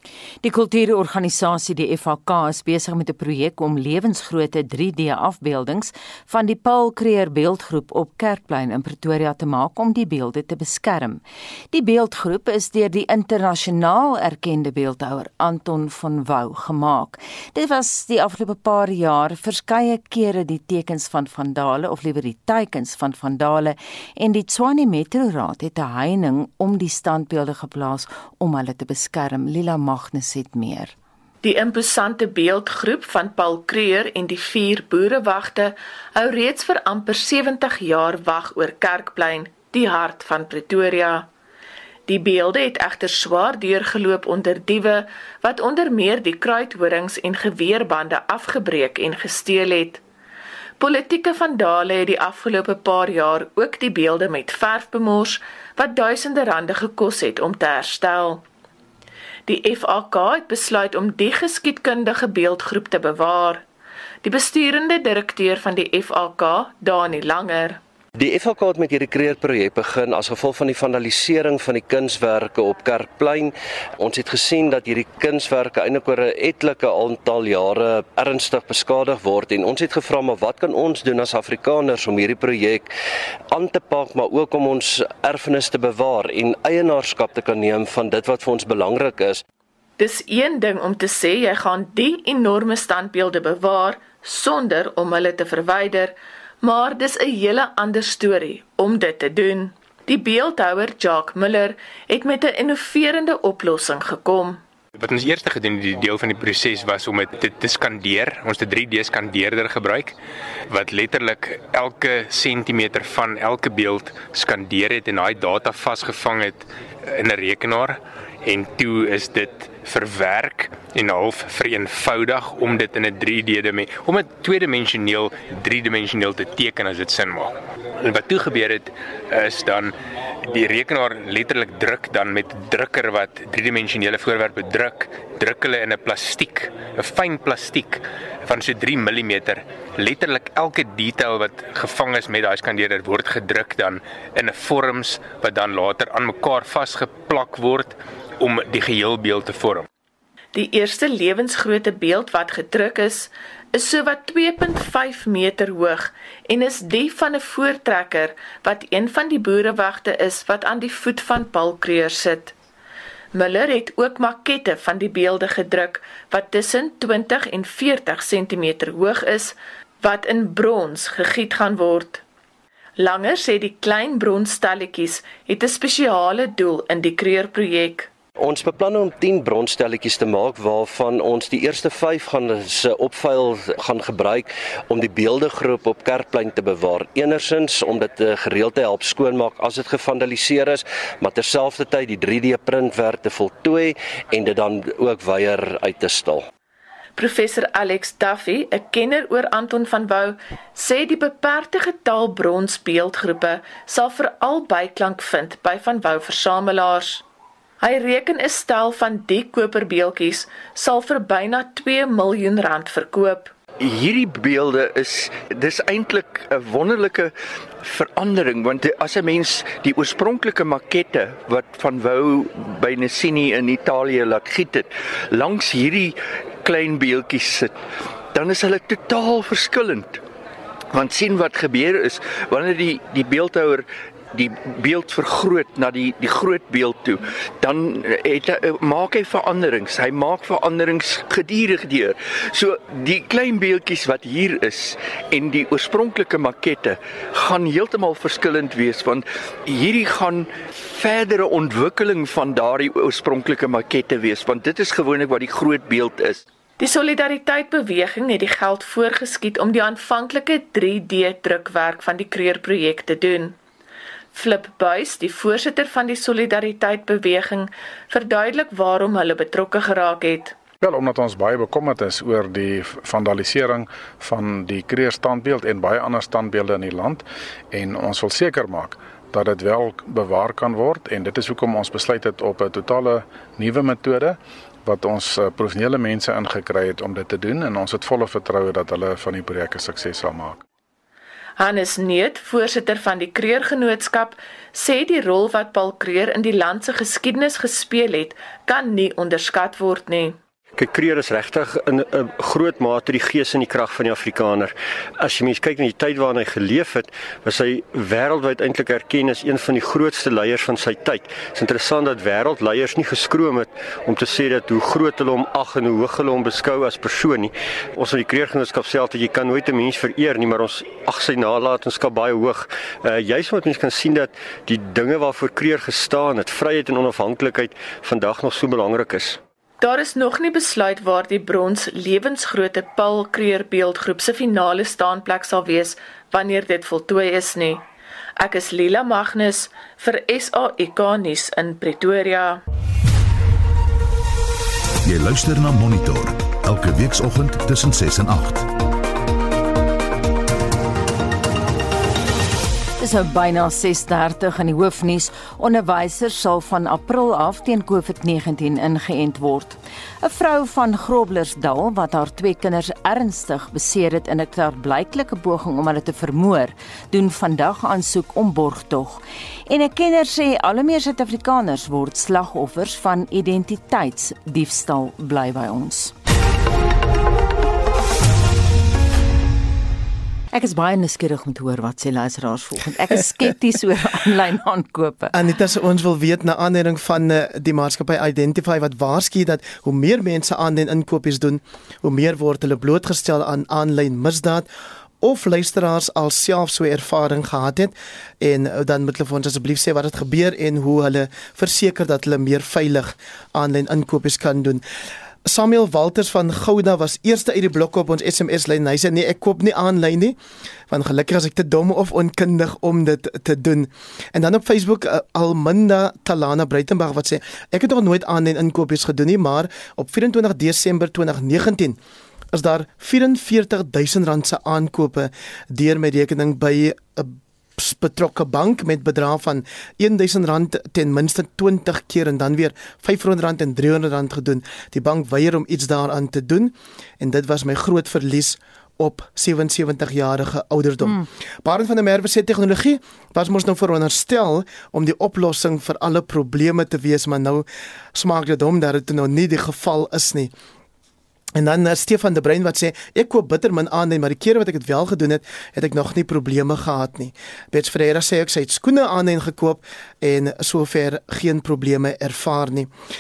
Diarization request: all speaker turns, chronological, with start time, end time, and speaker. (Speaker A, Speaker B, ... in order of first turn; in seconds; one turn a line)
Speaker A: 0.4-30.9
Speaker B: 31.4-41.3
Speaker B: 42.1-50.0
Speaker B: 50.8-58.4
Speaker B: 59.5-63.6
Speaker B: 64.2-67.8
Speaker C: 68.2-82.9
Speaker C: 83.5-89.4
Speaker B: 90.0-104.6
Speaker D: 105.0-110.2
Speaker D: 110.7-149.9
Speaker B: 150.6-162.5
Speaker B: 163.3-172.2
Speaker B: 173.0-178.1
Speaker C: 178.4-196.5
Speaker B: 197.2-207.2
Speaker B: 207.8-213.5
Speaker E: 213.8-227.8
Speaker E: 228.3-230.2
Speaker E: 230.9-256.4
Speaker B: 256.8-263.6
Speaker B: 264.3-270.6
Speaker F: 270.8-290.6
Speaker B: 291.6-300.4
Speaker G: 300.8-304.7
Speaker C: 300.9-304.6
Speaker C: 305.2-329.3
Speaker G: 305.2-313.7
Speaker G: 314.2-317.5
Speaker G: 318.2-324.1
Speaker G: 324.7-329.3
Speaker B: 329.8-337.9
Speaker B: 338.4-342.6
Speaker H: 345.1-348.7
Speaker A: 353.0-376.1
Speaker A: 380.5-385.3
Speaker I: 385.3-394.7
Speaker I: 395.2-404.8
Speaker I: 405.5-410.4
Speaker I: 410.9-422.0
Speaker I: 422.5-450.5
Speaker I: 451.6-462.9